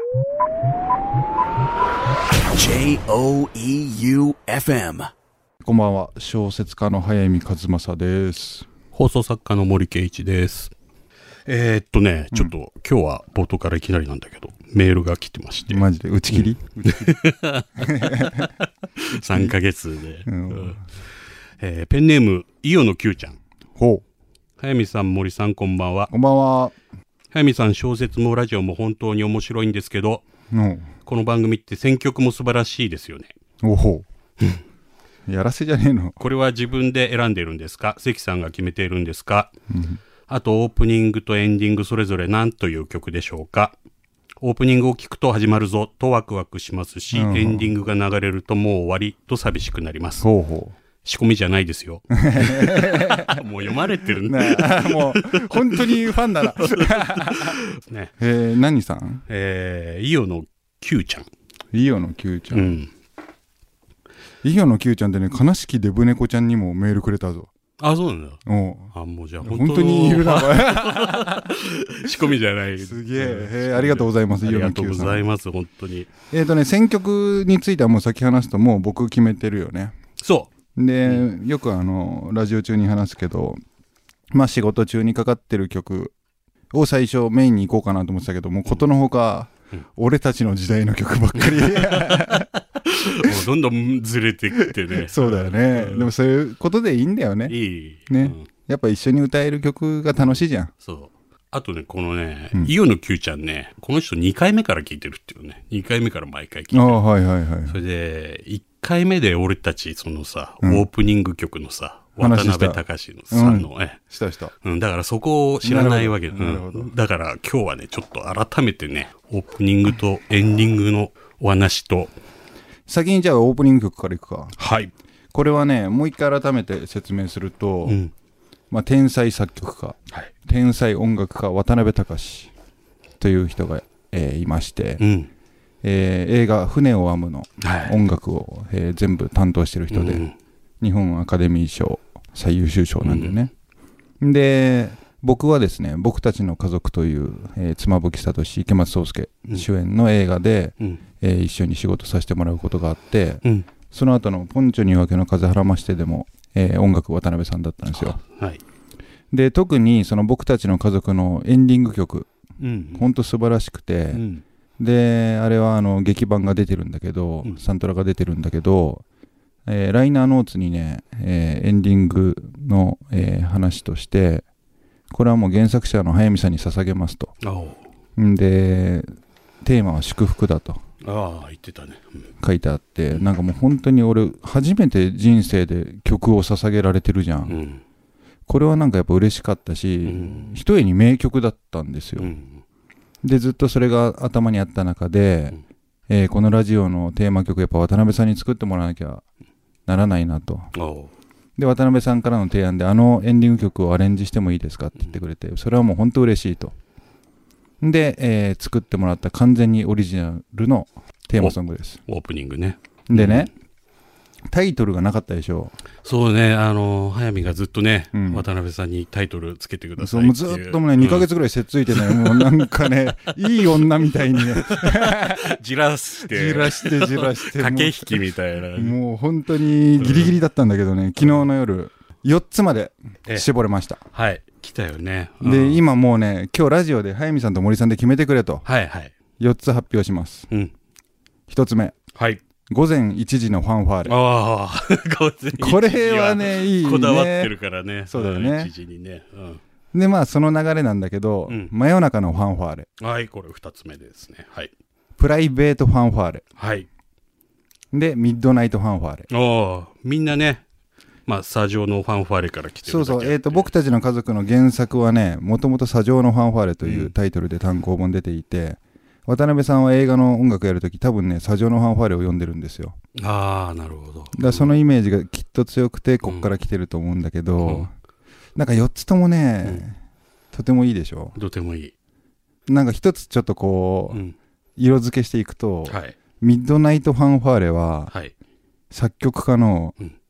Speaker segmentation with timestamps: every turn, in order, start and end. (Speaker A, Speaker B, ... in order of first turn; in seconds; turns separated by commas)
Speaker A: 2.4-5.1, Speaker B: 5.6-8.7, Speaker C: 8.9-10.7, Speaker C: 11.4-20.8, Speaker B: 15.7-17.2, Speaker B: 17.8-18.5, Speaker B: 19.2-19.5, Speaker B: 20.2-20.8, Speaker C: 21.6-23.4, Speaker B: 23.8-24.0, Speaker C: 24.6-26.1, Speaker B: 26.1-26.7, Speaker C: 27.3-30.2, Speaker B: 30.5-30.9, Speaker C: 31.1-33.3, Speaker B: 33.6-34.0, Speaker B: 35.3-36.2, Speaker C: 36.2-39.5, Speaker B: 39.7-40.0, Speaker C: 40.3-43.7, Speaker C: 44.4-50.3, Speaker B: 47.1-47.7, Speaker B: 50.2-50.8, Speaker C: 51.0-58.1, Speaker B: 52.1-53.4, Speaker B: 54.2-57.6, Speaker B: 58.2-59.2, Speaker C: 59.3-61.3, Speaker B: 61.7-62.7, Speaker C: 62.5-62.9, Speaker B: 64.4-67.5, Speaker C: 67.8-76.1, Speaker B: 68.5-71.5, Speaker B: 72.8-75.2, Speaker B: 76.3-80.0, Speaker C: 80.2-80.5, Speaker B: 80.8-83.6, Speaker B: 84.3-86.1, Speaker B: 86.7-92.5, Speaker C: 91.4-96.1, Speaker B: 94.9-97.5, Speaker C: 97.5-98.5, Speaker B: 98.1-100.7, Speaker C: 100.8-107.0, Speaker B: 106.7-107.8, Speaker C: 107.7-114.0, Speaker B: 112.2-114.5, Speaker C: 114.6-122.1, Speaker B: 115.6-116.9, Speaker B: 122.9-124.5, Speaker C: 124.6-124.9, Speaker B: 125.3-128.0, Speaker C: 127.8-128.1, Speaker B: 128.7-132.5, Speaker B: 133.2-135.0, Speaker C: 135.0-135.3, Speaker B: 135.8-140.2, Speaker C: 137.6-138.0, Speaker C: 139.9-140.3, Speaker B: 140.8-143.5, Speaker C: 143.0-143.3, Speaker B: 144.2-158.2, Speaker C: 157.9-158.6, Speaker B: 159.3-162.3, Speaker C: 162.6-163.1, Speaker B: 162.9-164.2, Speaker C: 164.1-164.4, Speaker B: 164.8-169.0, Speaker B: 169.7-174.4, Speaker B: 175.1-177.3, Speaker C: 177.4-177.9, Speaker B: 178.2-179.1, Speaker B: 179.6-180.8, Speaker C: 181.0-182.2, Speaker B: 182.4-187.6, Speaker C: 187.5-187.8, Speaker B: 188.5-192.3, Speaker C: 190.0-190.5, Speaker C: 192.2-192.6, Speaker B: 193.2-195.6, Speaker B: 196.1-199.2, Speaker B: 199.9-200.7, Speaker C: 200.7-201.1, Speaker B: 201.6-206.7, Speaker B: 207.8-212.0, Speaker C: 211.4-213.5, Speaker B: 213.1-213.5, Speaker B: 214.5-215.7, Speaker C: 216.0-221.3, Speaker B: 218.1-218.4, Speaker B: 220.0-225.6, Speaker C: 221.9-222.6, Speaker C: 224.3-229.0, Speaker B: 226.2-228.2, Speaker B: 228.7-234.0, Speaker C: 230.0-230.3, Speaker C: 234.1-235.8, Speaker B: 235.4-238.6, Speaker C: 238.6-239.1, Speaker B: 239.4-240.5, Speaker B: 241.5-241.9, Speaker C: 242.1-242.4, Speaker B: 242.7-244.1, Speaker C: 244.1-249.6, Speaker B: 245.6-247.5, Speaker B: 248.1-248.7, Speaker B: 249.9-252.9, Speaker C: 253.0-254.7, Speaker B: 255.2-256.4, Speaker C: 256.6-256.9, Speaker B: 257.9-259.3, Speaker C: 259.3-260.6, Speaker C: 261.3-263.7, Speaker B: 262.8-272.9, Speaker C: 266.8-267.1, Speaker C: 273.1-274.8, Speaker B: 274.3-277.9, Speaker C: 276.2-276.5, Speaker C: 277.6-277.9, Speaker B: 278.6-280.0, Speaker B: 280.5-281.4, Speaker C: 281.3-281.9, Speaker B: 282.7-284.2, Speaker C: 284.1-284.4, Speaker B: 284.8-288.1, Speaker C: 285.9-286.1, Speaker B: 288.9-289.9